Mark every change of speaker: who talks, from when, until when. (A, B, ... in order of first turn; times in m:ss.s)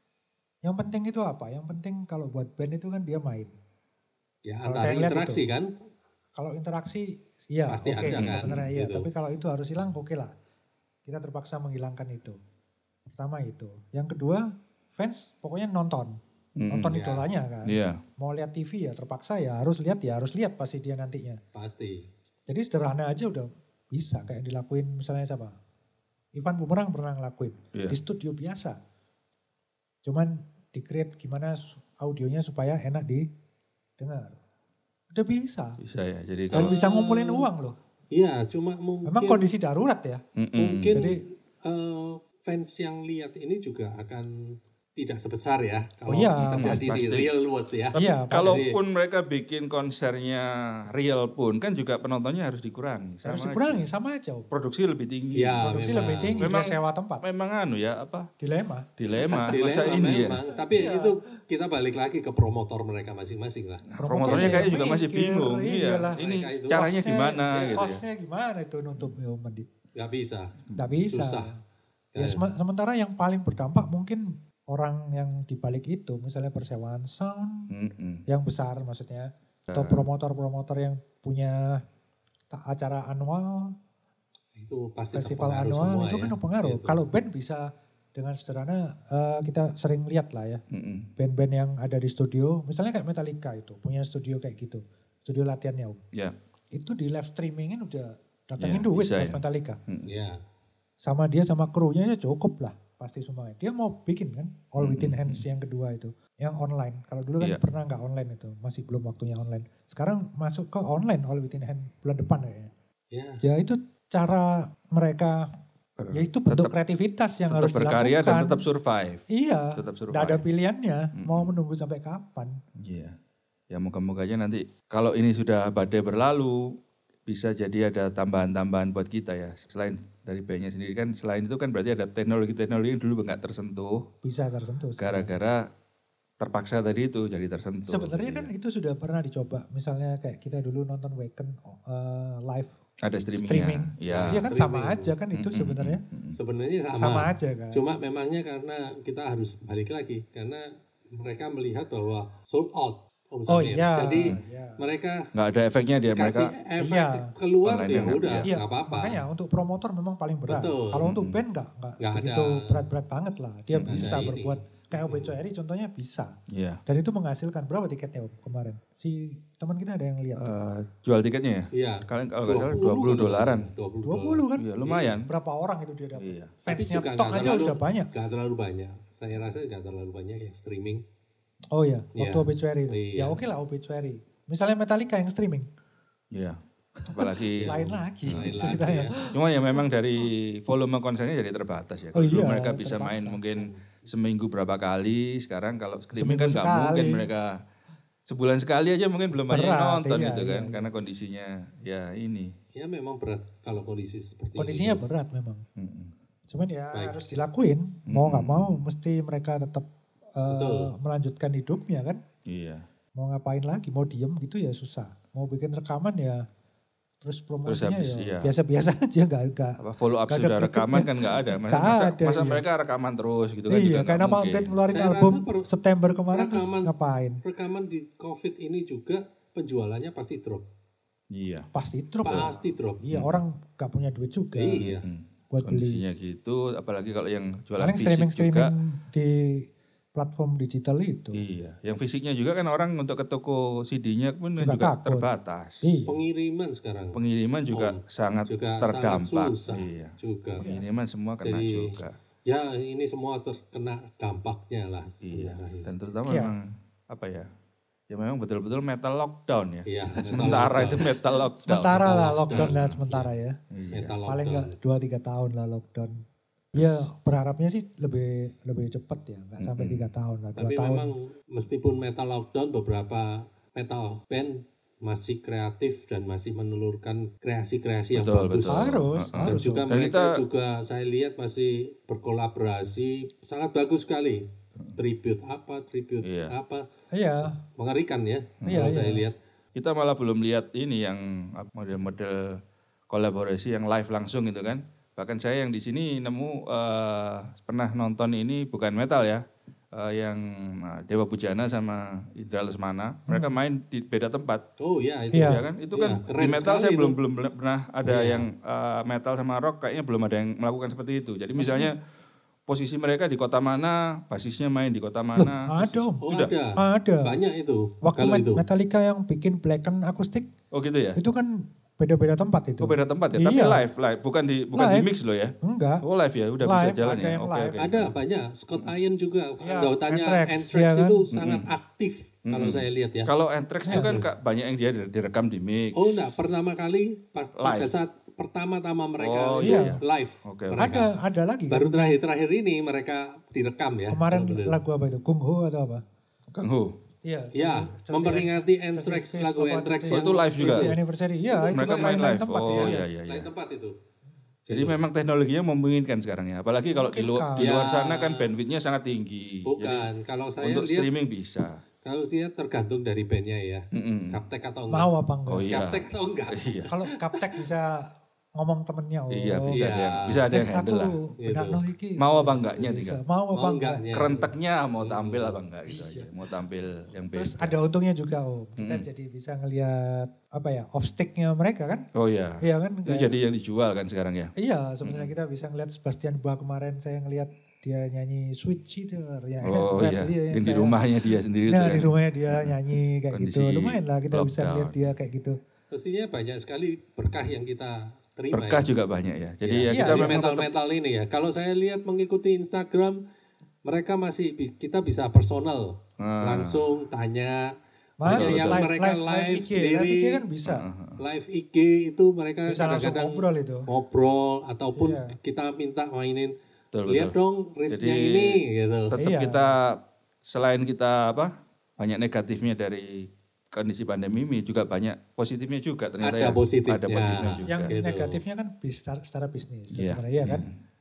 0:00.6-0:03.5 A
0:04.4-0:05.7 B
0:04.6-0:05.4 A
0:06.4-0:10.3 A
0:07.7-0:09.1 B
0:08.1-0:08.7 C
0:11.0-0:12.4 A
0:13.1-0:21.4 A
0:16.6-0:17.0 C
0:16.9-0:17.3 B
0:17.6-0:18.0 C
0:21.5-0:22.1 B
0:22.5-0:25.6 A
0:26.3-0:28.8 A
0:30.0-0:33.3 A
0:34.0-0:34.4 A
0:35.1-0:35.8 A
0:35.8-0:36.7 C
0:36.5-0:37.5 B
0:36.5-0:37.8 A
0:38.1-0:39.4 B
0:39.0-0:40.2 A
0:40.4-0:41.0 C
0:40.6-0:48.8 B
0:40.9-0:41.2 A
0:46.1-0:47.0 A
0:46.4-0:47.3 C
0:47.9-0:53.8 C
0:47.9-0:48.6 A
0:53.2-0:54.5 A
0:54.5-0:55.7 C
0:55.3-0:56.5 B
0:55.6-0:57.2 A
0:56.4-0:58.3 C
0:58.4-0:59.4 A
0:59.0-1:00.4 C
0:59.4-1:04.7 B
0:59.9-1:01.2 A
1:03.9-1:08.0 C
1:04.0-1:06.2 A
1:06.2-1:06.9 B
1:06.7-1:09.7 A
1:07.5-1:07.8 B
1:10.0-1:10.6 B
1:10.8-1:11.5 A
1:11.1-1:11.5 B
1:12.1-1:12.4 B
1:12.2-1:17.7 A
1:17.7-1:18.2 C
1:18.3-1:21.8 A
1:19.7-1:20.0 C
1:22.5-1:23.7 A
1:24.6-1:27.0 B
1:25.1-1:30.6 A
1:30.7-1:31.1 C
1:31.2-1:36.0 A
1:36.7-1:39.8 A
1:38.6-1:40.1 C
1:40.1-1:40.4 B
1:41.0-1:52.7 A
1:44.8-1:45.4 C
1:53.1-1:53.4 B
1:53.4-1:55.4 A
1:56.0-1:56.7 C
1:56.1-1:58.6 A
1:57.5-1:59.2 C
1:59.3-2:02.6 A
1:59.8-2:00.4 C
2:01.2-2:01.5 C
2:02.8-2:03.2 C
2:03.7-2:06.7 C
2:07.3-2:14.0 C
2:14.2-2:15.3 A
2:15.0-2:15.7 C
2:16.4-2:18.5 C
2:17.9-2:22.7 A
2:23.0-2:24.4 C
2:23.4-2:26.0 A
2:24.1-2:25.1 B
2:25.3-2:26.4 C
2:26.3-2:35.2 B
2:27.0-2:27.8 A
2:33.5-2:34.8 A
2:35.3-2:36.5 C
2:36.1-2:39.2 B
2:36.8-2:37.3 A
2:37.6-2:38.4 C
2:38.4-2:46.3 A
2:40.5-2:41.1 B
2:41.0-2:41.4 C
2:42.0-2:42.8 B
2:43.7-2:44.3 C
2:43.9-2:45.3 B
2:46.5-2:46.8 C
2:46.9-2:50.5 A
2:50.4-2:53.7 C
2:51.7-2:55.2 B
2:54.0-2:54.7 A
2:54.6-2:55.3 C
2:55.2-2:58.1 A
2:56.2-2:56.5 C
2:56.7-3:01.0 B
3:01.7-3:05.7 A
3:02.2-3:03.4 B
3:06.3-3:06.6 C
3:07.0-3:09.4 A
3:07.1-3:08.8 C
3:07.6-3:09.2 B
3:09.3-3:17.6 C
3:12.1-3:13.4 A
3:13.6-3:13.9 B
3:16.1-3:17.3 A
3:18.2-3:22.5 C
3:19.4-3:20.9 A
3:22.7-3:25.2 B
3:24.6-3:25.6 A
3:25.8-3:26.1 C
3:26.5-3:32.2 A
3:26.9-3:27.3 B
3:28.1-3:28.8 C
3:30.5-3:30.9 B
3:32.4-3:32.8 C
3:33.2-3:36.4 A
3:37.2-3:42.6 A
3:37.6-3:38.5 C
3:39.8-3:44.8 C
3:43.7-3:47.4 A
3:44.9-3:45.7 B
3:46.3-3:50.6 B
3:51.3-3:51.7 C
3:51.7-3:54.9 A
3:52.2-3:53.0 B
3:52.3-3:52.6 C
3:53.1-3:53.4 C
3:54.6-3:55.0 B
3:55.0-3:58.7 C
3:55.5-3:56.0 A
3:57.8-4:01.4 A
4:01.3-4:06.1 C
4:04.6-4:05.3 A
4:05.8-4:06.1 A
4:06.1-4:07.2 B
4:07.1-4:12.2 C
4:07.7-4:10.7 B
4:11.4-4:15.9 B
4:15.2-4:17.5 C
4:16.2-4:16.5 A
4:18.1-4:23.0 C
4:19.9-4:21.1 B
4:20.3-4:20.6 A
4:21.6-4:23.6 A
4:21.9-4:23.3 B
4:23.7-4:24.2 C
4:23.9-4:24.8 B
4:24.3-4:26.2 A
4:26.7-4:31.1 A
4:26.7-4:27.1 C
4:29.6-4:30.1 C
4:30.6-4:44.4 B
4:38.1-4:40.4 C
4:38.7-4:39.9 A
4:45.0-4:46.8 B
4:46.2-4:46.5 C
4:47.1-4:47.6 A
4:47.8-4:49.3 B
4:48.6-4:48.9 C
4:48.7-4:49.2 A
4:49.8-5:04.6 C
5:03.3-5:03.6 A
5:04.8-5:07.2 B
5:05.3-5:05.6 A
5:05.4-5:12.0 C
5:08.0-5:08.4 B
5:11.6-5:11.9 A
5:12.7-5:16.5 C
5:15.4-5:16.2 A
5:16.2-5:18.6 B
5:16.8-5:17.4 A
5:18.0-5:20.5 A
5:20.7-5:21.2 C
5:21.2-5:23.8 A
5:22.8-5:28.1 C
5:24.7-5:25.1 A
5:25.6-5:26.0 A
5:26.6-5:27.8 A
5:27.8-5:33.3 B
5:29.6-5:31.3 A
5:31.3-5:31.7 C
5:32.5-5:36.4 C
5:33.9-5:34.2 A
5:33.9-5:34.3 B
5:35.9-5:41.1 B
5:37.6-5:37.9 C
5:39.2-5:41.0 C
5:39.6-5:40.0 A
5:40.8-5:42.2 A
5:41.7-5:44.8 B
5:44.1-5:46.0 A
5:46.5-5:46.9 C
5:47.2-5:53.0 A
5:47.5-5:51.0 B
5:50.1-5:50.9 C
5:51.5-5:53.9 B
5:51.7-5:53.5 C
5:54.7-6:00.1 C
5:54.7-5:55.0 B
5:56.9-5:57.7 A
5:57.6-5:58.5 B
5:59.7-6:01.1 B
6:00.6-6:01.8 C
6:02.0-6:05.1 B
6:03.9-6:04.4 C
6:04.9-6:05.7 A
6:05.5-6:06.9 C
6:05.7-6:07.6 B
6:06.9-6:09.8 A
6:09.3-6:11.2 C
6:09.7-6:10.4 B
6:10.5-6:14.0 A
6:11.4-6:11.8 B
6:12.2-6:13.2 C
6:13.5-6:15.6 B
6:14.1-6:17.8 C
6:15.9-6:16.3 A
6:17.3-6:22.0 A
6:18.8-6:19.0 C
6:22.1-6:25.3 C
6:22.6-6:23.3 A
6:24.6-6:31.0 A
6:29.6-6:32.8 C
6:31.7-6:35.6 A
6:33.3-6:35.0 C
6:35.9-6:38.9 B
6:38.5-6:40.7 C
6:39.6-6:43.2 B
6:39.9-6:40.4 A
6:43.8-6:47.7 B
6:46.2-6:46.8 C
6:48.2-6:50.8 A
6:48.2-6:50.4 B
6:48.2-6:48.8 C
6:50.6-6:51.2 C
6:51.2-6:56.5 B
6:52.7-6:53.9 A
6:55.0-6:55.3 A
6:56.9-6:57.4 C
6:57.1-6:59.1 B
6:57.9-6:58.6 C
6:59.1-7:07.9 C
6:59.1-6:59.7 A
7:06.2-7:08.4 B
7:07.7-7:10.6 A
7:09.9-7:10.8 C